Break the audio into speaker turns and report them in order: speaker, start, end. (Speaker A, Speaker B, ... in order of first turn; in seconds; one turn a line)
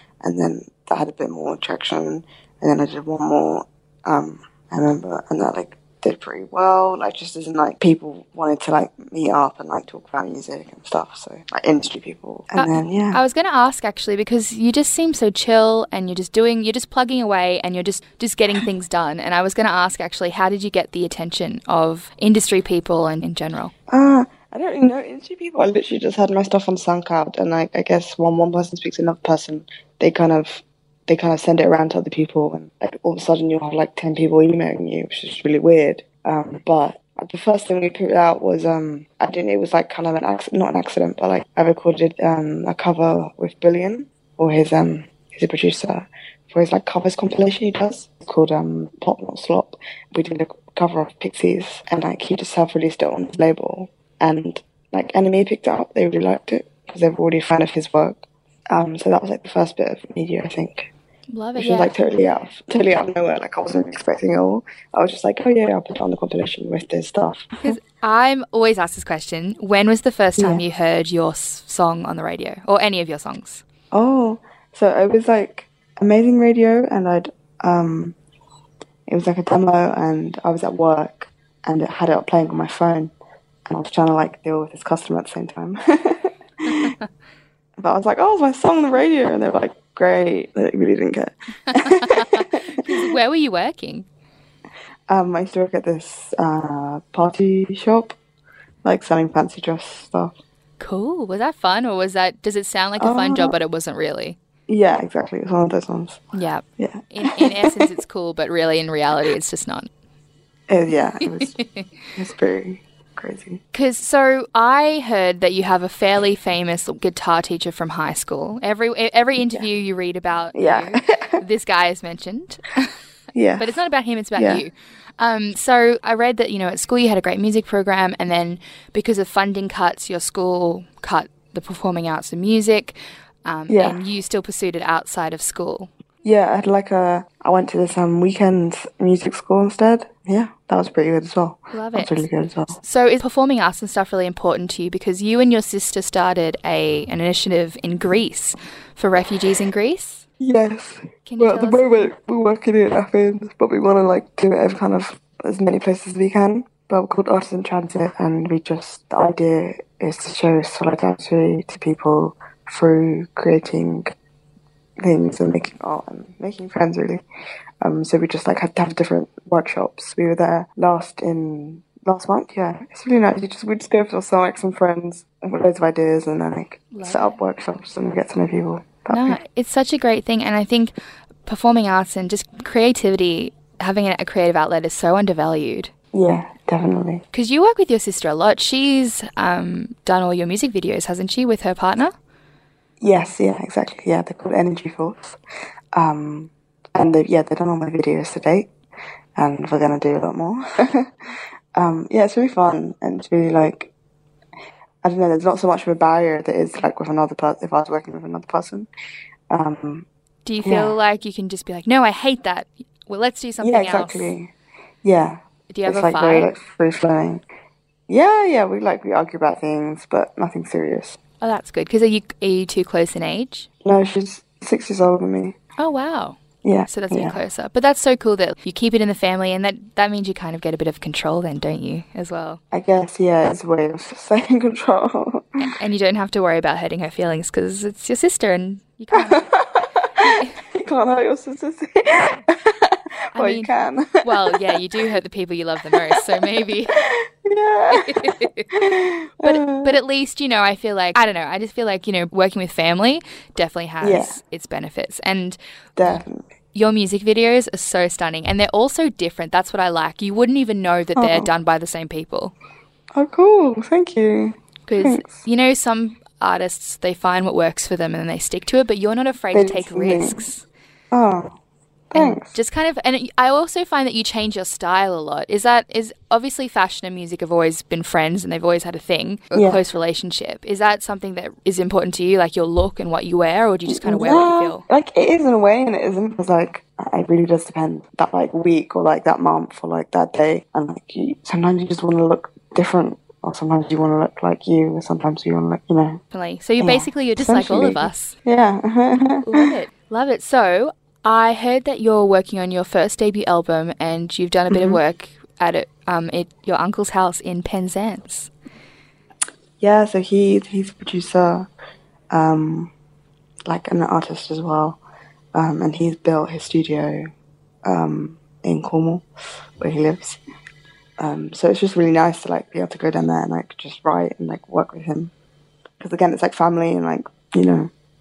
Speaker A: 0.2-13.2
Speaker B: 12.5-23.7
Speaker A: 23.9-60.9
Speaker B: 61.3-61.9
Speaker A: 61.5-67.8
Speaker B: 67.6-73.6
Speaker A: 70.4-70.6
Speaker A: 73.9-78.1
Speaker A: 79.1-83.1
Speaker A: 83.7-86.9
Speaker A: 87.8-92.8
Speaker B: 91.7-94.1
Speaker A: 95.1-98.1
Speaker A: 98.8-100.4
Speaker B: 100.8-104.4
Speaker A: 103.0-103.5
Speaker A: 104.7-106.2
Speaker B: 106.3-109.9
Speaker A: 106.8-107.9
Speaker A: 110.7-111.5
Speaker B: 111.2-111.8
Speaker A: 112.1-113.6
Speaker B: 113.7-122.9
Speaker A: 120.5-121.4
Speaker A: 123.3-123.8
Speaker B: 123.6-135.9
Speaker A: 124.3-124.6
Speaker A: 133.7-134.0
Speaker A: 136.2-142.8
Speaker B: 141.7-150.2
Speaker A: 150.4-164.1
Speaker B: 151.2-152.1
Speaker A: 165.0-167.2
Speaker A: 167.8-179.4
Speaker B: 176.9-177.3
Speaker B: 179.1-185.9
Speaker A: 186.1-187.2
Speaker B: 187.3-192.1
Speaker A: 193.0-195.4
Speaker A: 195.9-198.7
Speaker A: 199.4-201.1
Speaker A: 201.8-203.9
Speaker A: 205.0-208.9
Speaker A: 209.5-210.1
Speaker B: 210.4-214.3
Speaker A: 210.6-211.0
Speaker A: 213.6-214.5
Speaker A: 215.0-217.4
Speaker B: 215.7-216.5
Speaker A: 218.1-221.2
Speaker B: 221.4-223.7
Speaker A: 223.8-225.6
Speaker B: 225.8-232.6
Speaker A: 226.6-227.4
Speaker A: 232.7-235.6
Speaker B: 235.6-239.5
Speaker A: 239.2-244.6
Speaker B: 240.2-240.6
Speaker B: 243.3-243.7
Speaker B: 244.2-246.9
Speaker A: 246.9-250.0
Speaker B: 247.9-248.7
Speaker B: 249.4-262.5
Speaker A: 254.0-254.4
Speaker A: 256.0-256.4
Speaker A: 261.1-261.5
Speaker A: 263.1-265.4
Speaker B: 264.9-270.6
Speaker A: 269.5-270.4
Speaker A: 271.1-271.5
Speaker A: 272.1-272.6
Speaker B: 272.1-284.8
Speaker A: 279.5-279.8
Speaker A: 283.9-296.2
Speaker B: 296.3-298.4
Speaker A: 296.8-299.7
Speaker B: 299.4-308.5
Speaker A: 304.7-305.0
Speaker A: 309.8-311.7
Speaker A: 312.3-312.9
Speaker A: 313.7-315.0
Speaker A: 315.5-317.3
Speaker A: 317.8-319.2
Speaker A: 319.8-320.4
Speaker A: 321.2-325.3
Speaker A: 326.0-327.9